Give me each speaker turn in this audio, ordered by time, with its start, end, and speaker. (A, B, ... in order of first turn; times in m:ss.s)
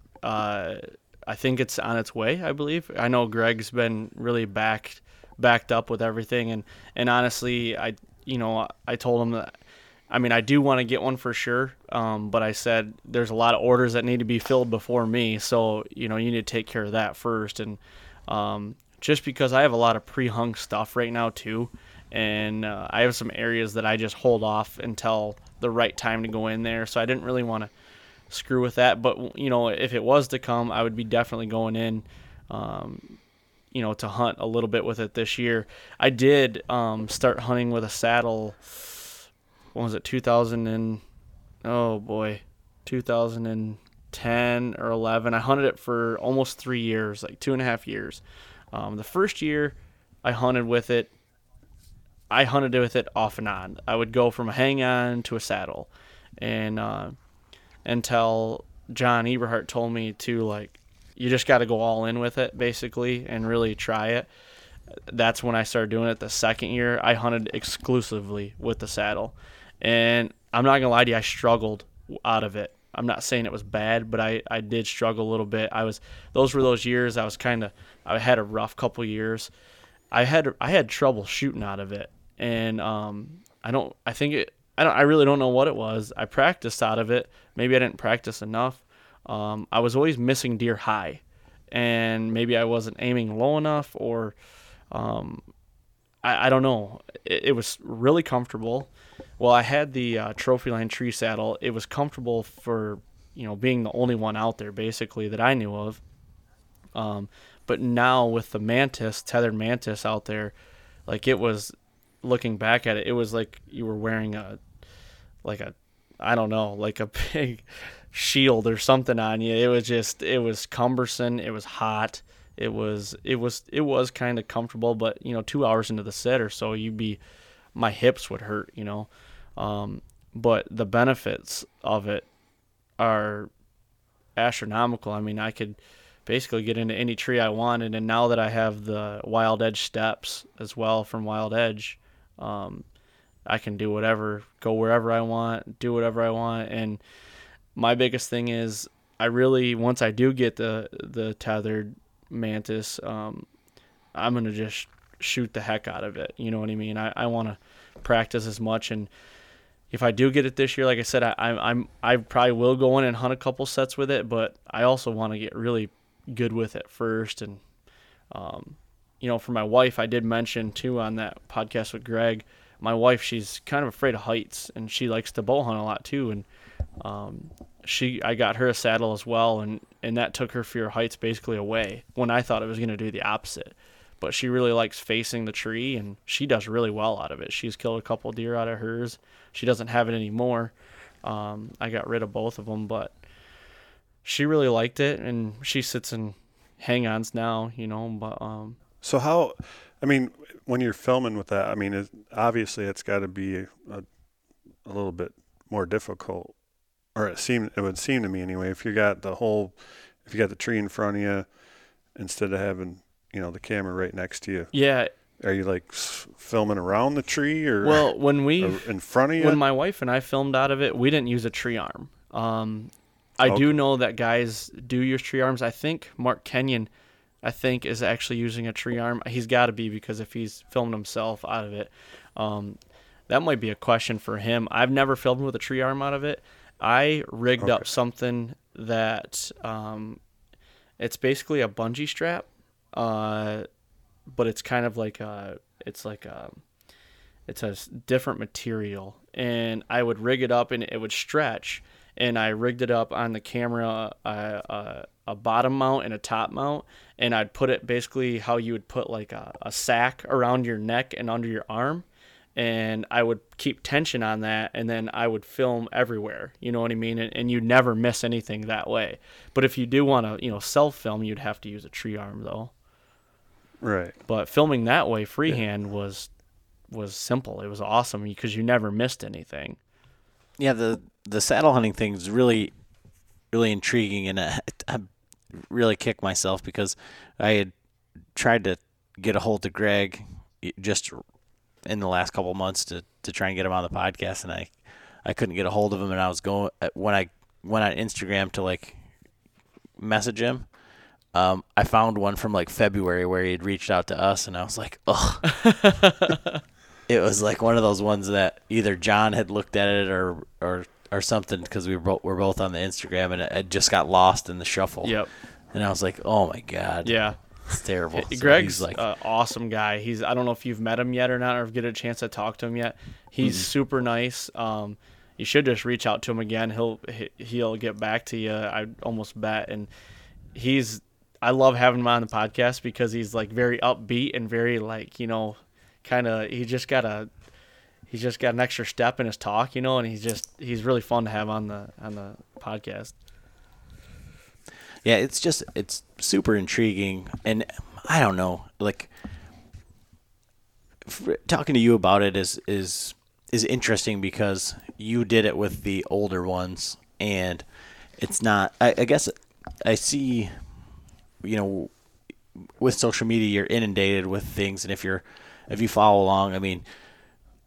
0:00.2-0:09.5 A
0:10.1-0:27.7 A
0:28.3-0:33.2 A
0:33.7-0:39.1 A
0:39.7-0:41.0 A
0:41.6-0:51.1 A
0:52.3-0:57.2 A
0:57.8-1:04.3 A
1:05.1-1:19.5 A
1:20.1-1:34.3 A
1:34.9-1:35.4 A
1:36.2-1:46.0 A
1:46.9-1:50.5 A
1:51.1-1:54.6 A
1:55.4-2:07.2 A
2:07.7-2:12.3 A
2:13.0-2:13.5 A
2:14.4-2:22.8 A
2:23.4-2:27.0 A
2:27.7-2:33.4 A
2:34.1-2:39.1 A
2:39.9-2:47.6 A
2:48.3-2:56.4 A
2:57.0-3:10.7 A
3:11.2-3:13.1 A
3:14.2-3:18.8 A
3:19.0-3:24.0 B
3:24.8-3:26.5 B
3:27.1-3:31.5 B
3:32.1-3:34.7 B
3:34.7-3:35.1 A
3:35.4-3:39.6 B
3:37.8-3:46.9 A
3:43.4-3:43.7 B
3:47.4-3:52.8 A
3:53.3-4:00.2 A
3:57.6-3:57.8 B
4:01.0-4:03.7 A
4:04.3-4:06.6 A
4:07.5-4:22.0 A
4:22.6-4:32.7 A
4:33.8-4:34.2 B
4:34.3-4:36.3 A
4:36.9-4:39.8 A
4:40.6-4:42.7 C
4:43.5-4:47.7 C
4:48.3-4:51.2 C
4:51.8-4:54.7 C
4:55.2-4:59.0 C
5:00.0-5:00.6 C
5:01.3-5:05.5 C
5:05.5-5:06.6 A
5:07.1-5:15.2 C
5:15.0-5:15.3 A
5:15.7-5:19.0 C
5:17.0-5:17.4 A
5:18.1-5:29.9 A
5:23.4-5:23.7 C
5:30.5-5:37.3 A
5:38.1-5:43.1 A
5:45.0-5:49.1 C
5:51.0-5:57.6 C
5:58.2-6:00.6 C
6:01.4-6:01.9 C
6:02.8-6:06.8 C